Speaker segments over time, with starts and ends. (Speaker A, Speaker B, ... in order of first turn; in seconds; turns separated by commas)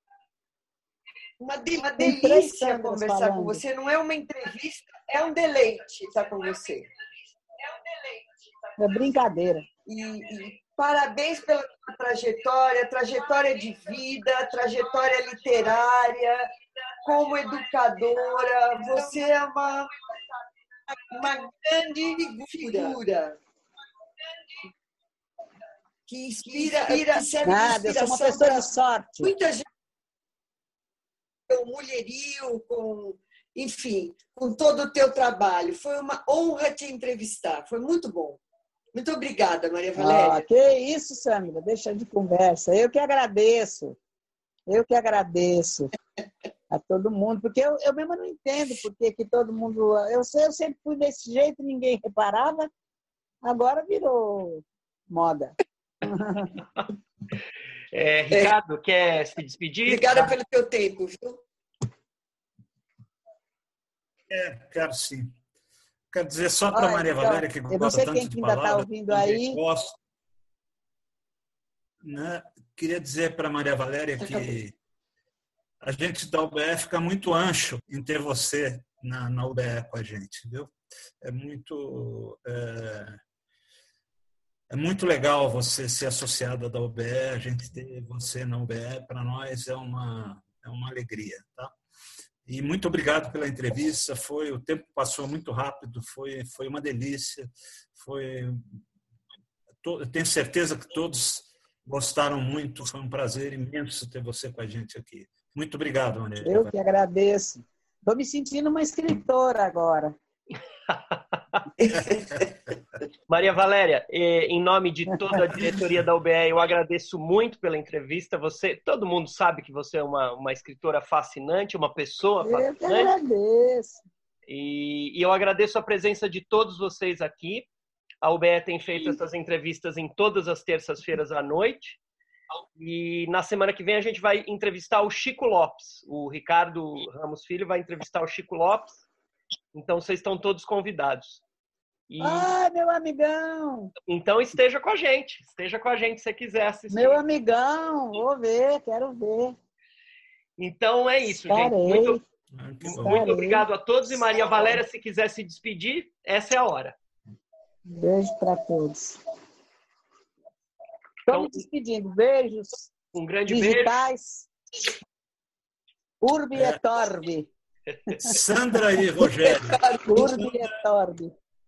Speaker A: 1.4-6.8, Speaker B: 1.8-3.6, Speaker B: 8.8-9.7, Speaker A: 9.9-16.5, Speaker A: 17.0-19.9, Speaker A: 20.9-23.4, Speaker A: 26.1-29.6, Speaker B: 26.7-29.3, Speaker A: 31.5-38.4, Speaker A: 38.9-40.4, Speaker B: 40.0-44.0, Speaker B: 44.7-45.9, Speaker B: 46.7-52.7, Speaker B: 53.4-56.6, Speaker C: 57.9-60.3, Speaker A: 59.9-61.4, Speaker D: 64.3-65.3, Speaker D: 66.1-70.0, Speaker B: 66.7-69.6, Speaker D: 72.0-74.7, Speaker D: 75.8-83.2, Speaker D: 84.7-91.7, Speaker D: 92.5-98.8, Speaker D: 99.8-106.7, Speaker B: 106.4-110.2, Speaker A: 111.8-112.4, Speaker C: 113.3-123.1, Speaker B: 122.4-124.0, Speaker C: 124.5-127.7, Speaker C: 128.2-132.0, Speaker C: 132.8-139.0, Speaker C: 139.7-141.4, Speaker C: 142.1-142.5, Speaker B: 142.2-143.9, Speaker C: 144.1-147.2, Speaker B: 146.9-149.6, Speaker C: 150.6-152.2, Speaker B: 151.3-152.2, Speaker D: 152.6-153.3, Speaker C: 152.8-156.9, Speaker B: 152.8-153.7, Speaker B: 157.8-159.2, Speaker B: 161.3-162.9, Speaker C: 161.3-161.6, Speaker C: 163.1-164.0, Speaker B: 163.5-164.5, Speaker B: 166.2-167.5, Speaker C: 167.9-168.4, Speaker B: 168.1-168.4, Speaker D: 168.2-170.7, Speaker A: 169.4-170.0, Speaker B: 170.0-171.3